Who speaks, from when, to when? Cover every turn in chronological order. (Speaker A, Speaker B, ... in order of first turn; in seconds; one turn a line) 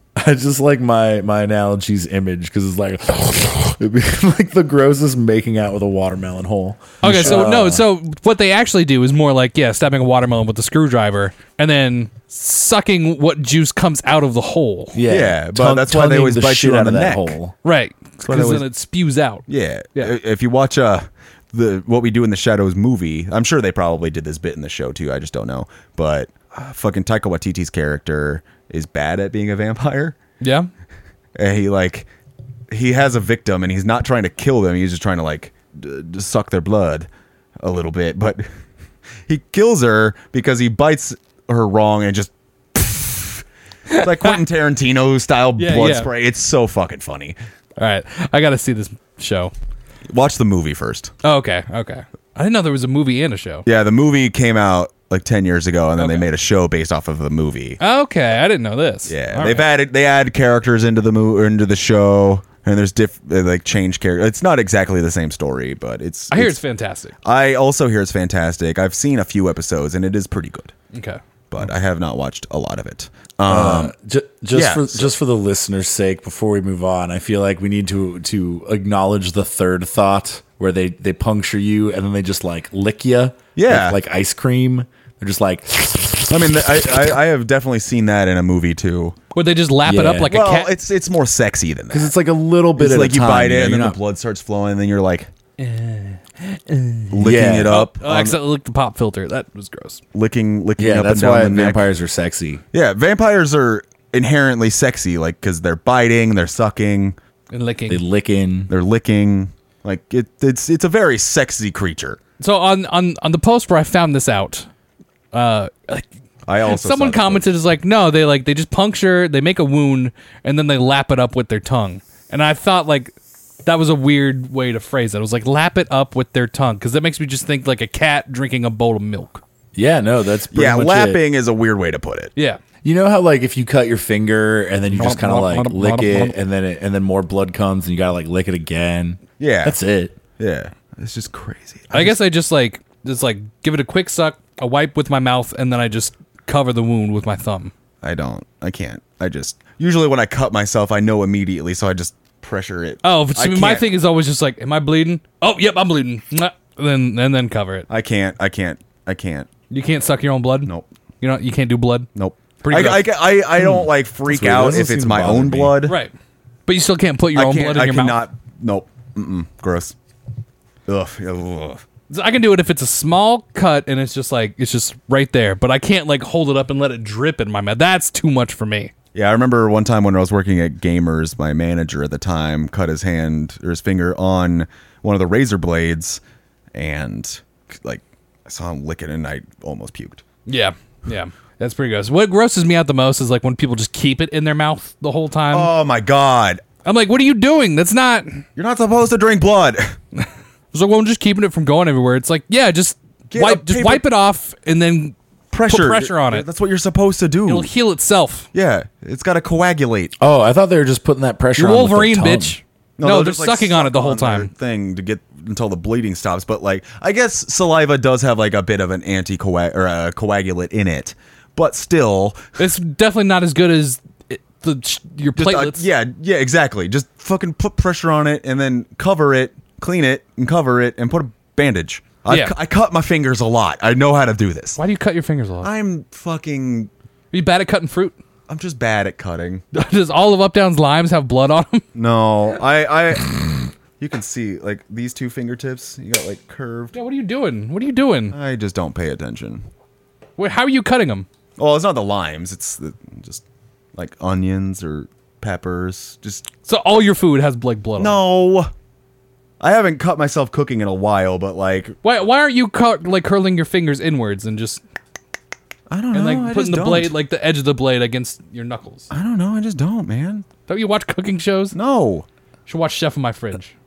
Speaker A: 0.2-7.8
Speaker B: 7.0-7.5
Speaker C: 7.0-15.0
Speaker A: 14.9-17.5
Speaker B: 15.1-17.4
Speaker C: 17.6-20.1
Speaker B: 18.2-18.7
Speaker B: 19.5-30.2
Speaker C: 30.4-30.7
Speaker B: 31.4-32.1
Speaker B: 32.7-37.1
Speaker B: 37.6-38.5
Speaker B: 39.3-47.4
Speaker C: 43.9-44.4
Speaker C: 45.6-46.1
Speaker C: 47.8-49.5
Speaker B: 50.1-51.1
Speaker C: 51.2-53.7
Speaker B: 53.7-57.8
Speaker C: 56.0-56.3
Speaker C: 57.8-59.7
Speaker B: 59.1-66.6
Speaker C: 66.3-67.1
Speaker B: 67.2-70.7
Speaker C: 70.9-71.2
Speaker B: 71.5-73.9
Speaker A: 73.5-86.6
Speaker B: 74.5-75.1
Speaker B: 83.5-84.0
Speaker B: 86.3-89.2
Speaker C: 89.3-90.7
Speaker A: 89.9-90.3
Speaker B: 90.2-92.1
Speaker A: 91.9-94.0
Speaker B: 92.8-95.3
Speaker C: 95.6-100.0
Speaker B: 97.1-98.4
Speaker A: 97.2-97.8
Speaker B: 100.1-101.8
Speaker A: 100.8-102.6
Speaker B: 102.7-107.2
Speaker C: 107.5-108.0
Speaker A: 107.9-108.7
Speaker B: 108.7-112.2
Speaker C: 112.4-114.7
Speaker C: 115.3-116.1
Speaker B: 116.5-117.5
Speaker C: 116.7-123.2
Speaker C: 123.7-129.4
Speaker A: 129.8-131.2
Speaker B: 130.5-132.3
Speaker A: 132.8-140.2
Speaker C: 135.1-136.2
Speaker B: 139.4-139.8
Speaker B: 140.4-142.2
Speaker C: 141.9-147.7
Speaker B: 148.0-153.8
Speaker C: 153.0-157.9
Speaker B: 157.9-159.5
Speaker C: 159.7-162.1
Speaker B: 162.2-166.0
Speaker C: 162.6-163.1
Speaker A: 163.6-165.9
Speaker C: 165.9-166.1
Speaker C: 166.7-168.2
Speaker B: 167.3-169.9
Speaker B: 170.9-171.8
Speaker C: 172.1-178.9
Speaker B: 179.1-186.2
Speaker B: 186.7-190.2
Speaker C: 190.5-195.7
Speaker B: 195.5-196.6
Speaker C: 196.8-198.4
Speaker B: 198.6-200.0
Speaker C: 200.2-205.2
Speaker B: 203.3-204.0
Speaker B: 205.5-207.7
Speaker C: 205.7-206.5
Speaker C: 207.5-208.5
Speaker B: 208.5-210.1
Speaker A: 210.2-212.6
Speaker C: 211.6-214.5
Speaker B: 213.0-222.6
Speaker C: 222.6-225.8
Speaker B: 225.4-234.8
Speaker C: 232.3-232.5
Speaker C: 234.8-235.7
Speaker B: 235.6-236.9
Speaker C: 237.3-238.2
Speaker B: 238.5-239.6
Speaker C: 239.7-241.8
Speaker B: 241.9-246.9
Speaker C: 246.9-248.3
Speaker B: 248.3-249.7
Speaker C: 250.4-251.3
Speaker B: 251.6-253.4
Speaker B: 253.9-256.5
Speaker C: 256.6-258.2
Speaker B: 258.0-258.7
Speaker B: 259.6-262.0
Speaker C: 262.0-264.8
Speaker B: 265.9-267.1
Speaker C: 266.1-269.1
Speaker B: 269.1-270.5
Speaker C: 270.7-271.8
Speaker B: 271.7-272.3
Speaker C: 272.7-273.7